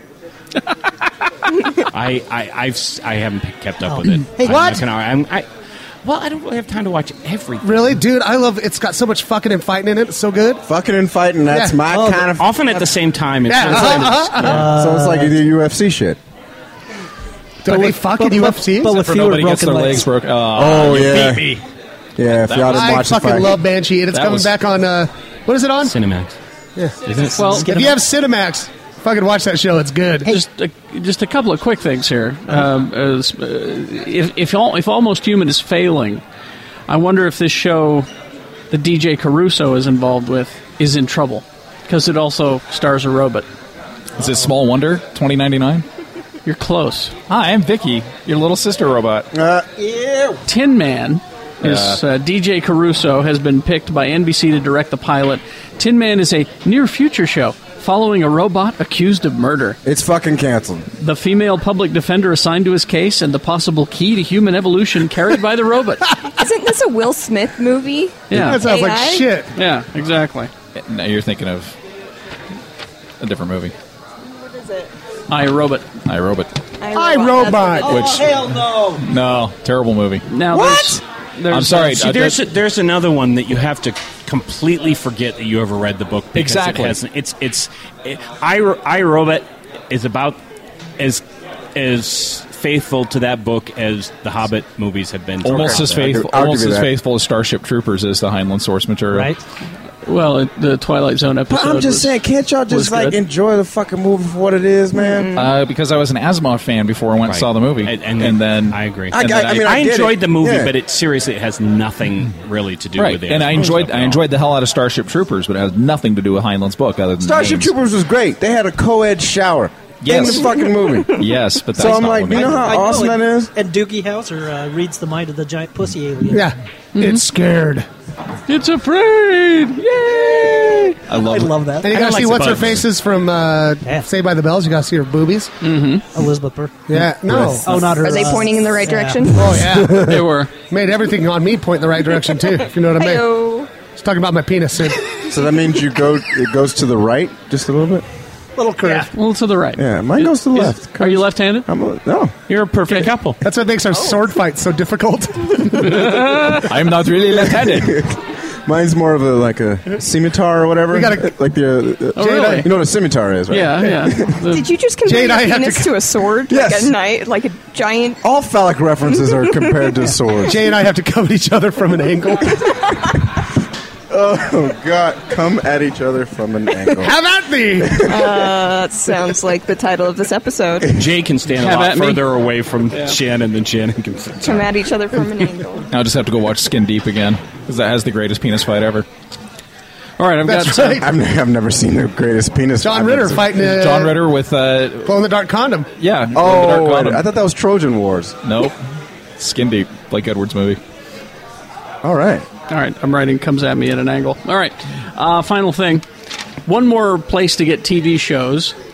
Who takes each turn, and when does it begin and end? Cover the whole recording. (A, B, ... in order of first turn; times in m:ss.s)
0:01.9-0:05.5 A
0:03.9-0:04.7 B
0:04.4-0:04.8 C
0:06.0-0:08.0 A
0:07.6-0:10.6 C
0:10.6-0:12.5 D
0:11.5-0:11.9 C
0:11.9-0:12.3 B
0:12.4-0:14.6 A
0:13.5-0:14.7 C
0:14.4-0:16.2 D
0:14.4-0:15.4 B
0:17.6-0:19.1 C
0:17.7-0:20.1 B
0:18.9-0:21.6 E
0:20.6-0:21.5 D
0:22.2-0:23.6 D
0:22.5-0:23.0 E
0:22.7-0:26.0 C
0:24.1-0:24.5 E
0:25.8-0:26.4 A
0:27.0-0:27.9 A
0:27.4-0:27.8 F
0:27.6-0:30.3 C
0:30.3-0:36.2 F
0:36.9-0:38.1 F
0:38.7-0:43.5 F
0:44.2-0:45.9 E
0:46.4-0:47.2 F
0:47.3-0:49.3 E
0:49.3-0:50.4 D
0:50.5-0:59.8 F
0:51.6-0:52.0 E
0:59.8-1:00.9 D
1:01.0-1:06.1 F
1:06.4-1:09.3 G
1:08.3-1:08.6 F
1:08.3-1:09.5 C
1:09.6-1:10.5 F
1:10.8-1:11.8 E
1:13.2-1:13.7 E
1:14.3-1:14.9 G
1:15.3-1:15.9 F
1:16.1-1:16.5 E
1:16.8-1:18.1 G
1:16.9-1:18.1 C
1:17.8-1:19.0 B
1:17.9-1:18.4 E
1:19.0-1:20.3 E
1:20.3-1:21.8 F
1:21.5-1:22.4 E
1:21.5-1:30.4 A
1:26.3-1:27.0 E
1:31.0-1:31.2 A
1:31.8-1:36.2 A
1:35.4-1:36.9 D
1:35.4-1:39.3 E
1:39.1-1:39.4 B
1:40.1-1:42.2 F
1:41.5-1:45.3 D
1:42.7-1:43.2 F
1:44.9-1:45.6 G
1:45.3-1:49.7 E
1:47.2-1:54.3 A
1:49.1-1:50.7 D
1:53.0-1:57.7 E
1:57.2-2:03.5 D
2:00.0-2:00.5 E
2:01.1-2:02.8 E
2:02.0-2:06.5 B
2:06.3-2:07.9 C
2:07.0-2:07.2 F
2:08.5-2:10.1 F
2:10.1-2:12.1 B
2:11.1-2:11.5 E
2:11.8-2:15.5 C
2:11.9-2:12.9 A
2:12.5-2:12.8 E
2:15.6-2:16.0 F
2:16.1-2:19.6 B
2:16.9-2:23.2 C
2:17.9-2:19.7 G
2:19.9-2:20.5 F
2:23.0-2:23.7 G
2:24.0-2:25.1 C
2:25.2-2:28.0 D
2:28.6-2:29.1 C
2:29.1-2:31.7 F
2:29.8-2:32.3 D
2:32.5-2:33.4 A
2:33.4-2:36.5 C
2:36.5-2:38.1 E
2:37.3-2:44.4 D
2:40.9-2:41.3 C
2:42.2-2:42.7 F
2:42.2-2:42.7 C
2:43.5-2:44.6 F
2:44.5-2:48.2 G
2:45.0-2:46.0 C
2:46.5-2:47.0 D
2:48.2-2:50.6 D
2:49.2-2:49.9 G
2:50.4-2:52.7 C
2:54.1-2:57.1 D
2:57.0-2:58.1 C
2:57.8-2:58.3 D
2:58.1-3:01.0 G
3:00.9-3:04.7 A
3:01.6-3:02.3 F
3:04.4-3:05.9 G
3:05.9-3:09.1 E
3:10.2-3:11.1 F
3:10.4-3:11.1 C
3:11.0-3:13.5 D
3:12.8-3:14.2 C
3:13.6-3:15.2 E
3:15.0-3:15.9 C
3:16.0-3:17.3 E
3:16.3-3:18.4 D
3:18.4-3:18.8 E
3:19.4-3:20.8 E
3:22.0-3:22.5 D
3:22.7-3:26.0 F
3:26.6-3:28.8 F